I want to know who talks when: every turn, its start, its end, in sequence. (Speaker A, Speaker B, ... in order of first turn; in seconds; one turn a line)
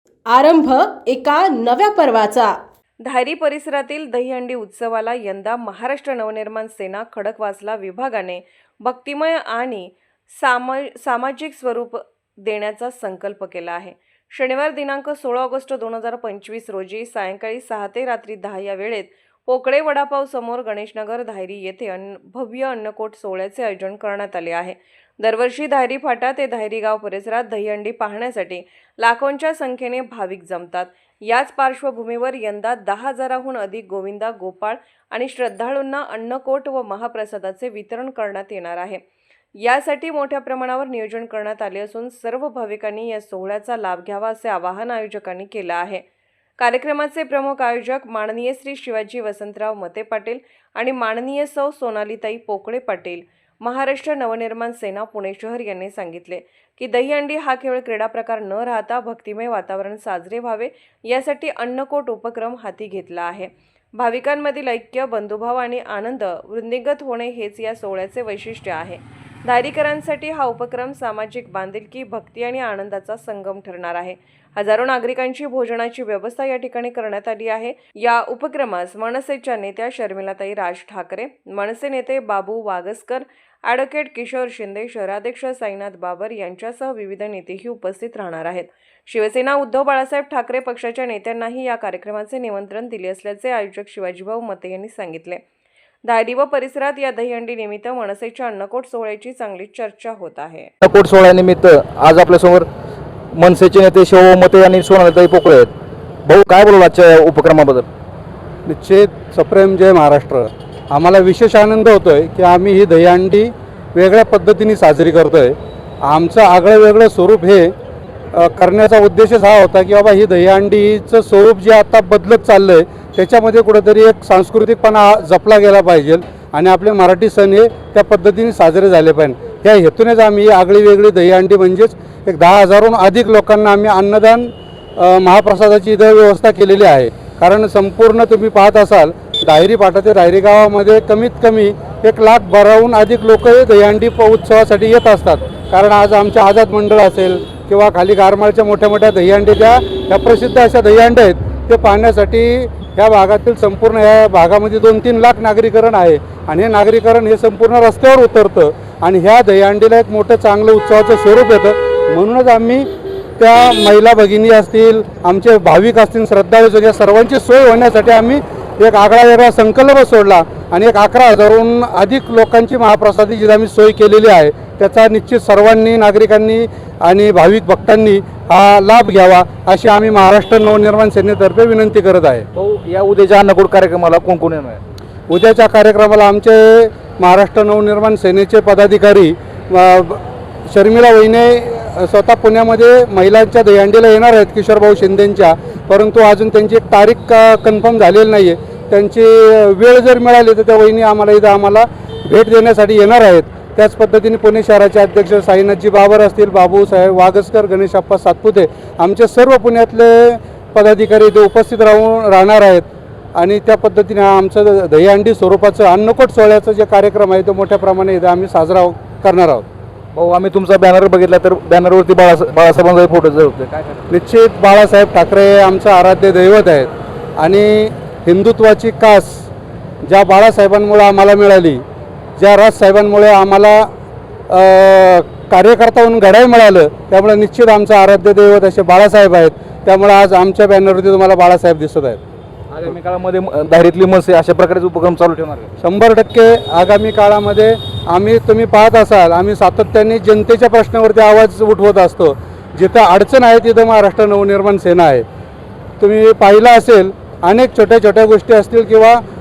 Speaker A: 0.3-2.6
Speaker B: 3.0-39.0
Speaker B: 39.6-46.0
Speaker B: 46.6-95.4
Speaker B: 96.0-100.7
Speaker C: 100.8-102.7
Speaker C: 103.3-105.7
Speaker C: 106.2-107.9
Speaker D: 108.7-117.7
Speaker D: 118.3-162.9
Speaker D: 163.4-182.5
Speaker C: 182.6-184.8
Speaker D: 185.3-219.7
Speaker C: 220.1-224.1
Speaker D: 224.1-229.5
Speaker D: 230.0-231.8
Speaker D: 232.4-233.9
Speaker D: 234.5-242.2
Speaker C: 242.7-245.7
Speaker D: 245.8-255.2
Speaker D: 256.0-259.2